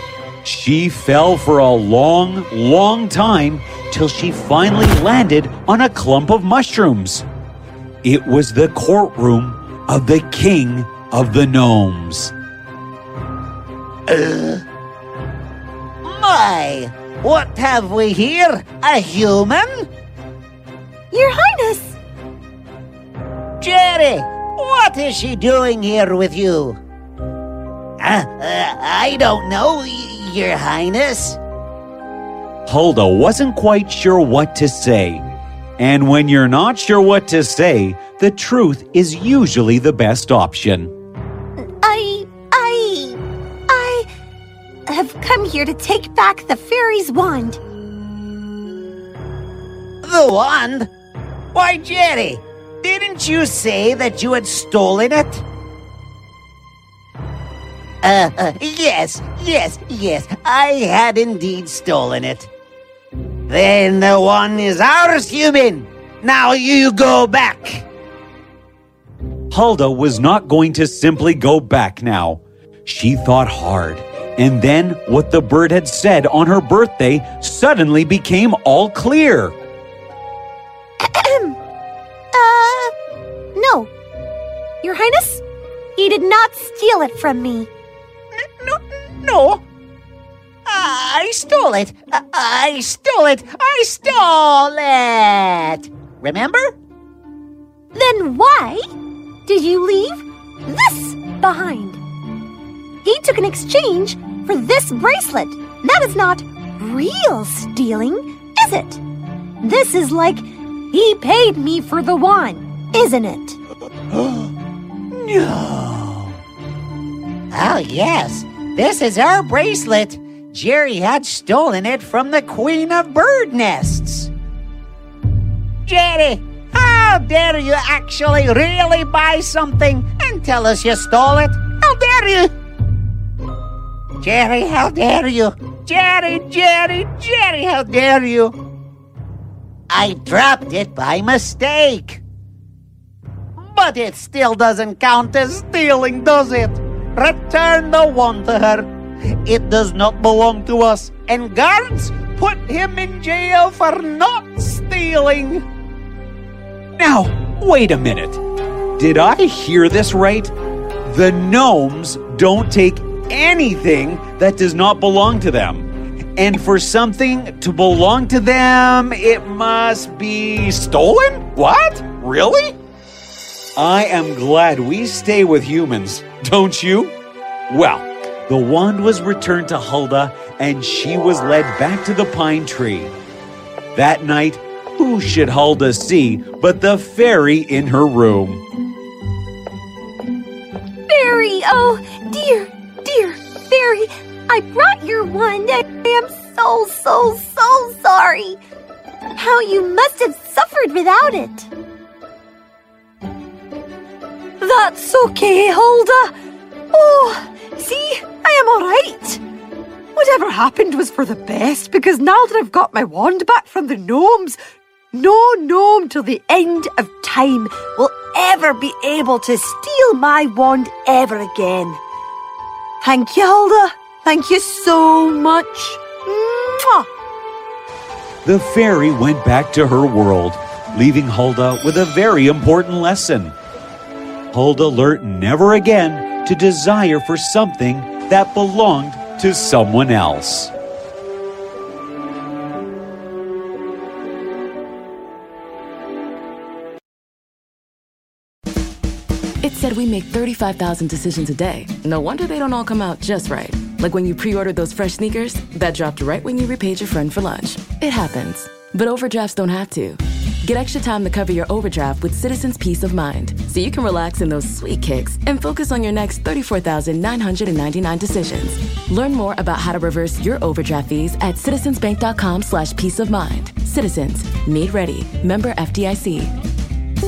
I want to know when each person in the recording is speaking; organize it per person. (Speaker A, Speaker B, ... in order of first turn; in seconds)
Speaker A: 0.4-7.2, 8.0-12.3, 32.6-35.2, 35.8-40.9, 69.5-79.5, 156.9-158.4, 159.0-160.5, 161.1-172.8, 173.8-177.1, 177.7-183.1, 183.9-188.6, 228.4-233.6, 234.5-240.7
Speaker B: 14.1-14.6, 16.0-19.9, 23.6-26.8, 28.0-31.4, 50.0-50.9, 51.5-55.4, 58.0-62.5, 63.5-67.9, 88.6-89.6, 90.7-96.7, 114.2-114.5, 115.1-116.3, 117.5-124.3, 125.8-132.5, 134.2-138.6, 139.9-142.2, 143.6-148.9, 149.4-155.6
Speaker C: 21.1-21.9, 41.6-44.1, 44.9-47.6, 81.0-81.6, 82.3-82.9, 83.5-83.9, 84.8-85.4, 86.0-87.7, 97.9-98.8, 99.5-102.0, 103.0-109.0, 109.6-113.6, 191.1-198.6, 199.3-201.7
Speaker D: 204.6-206.3, 206.9-209.4, 210.1-214.6, 215.1-222.0, 223.0-227.1
Speaker E: 249.6-276.5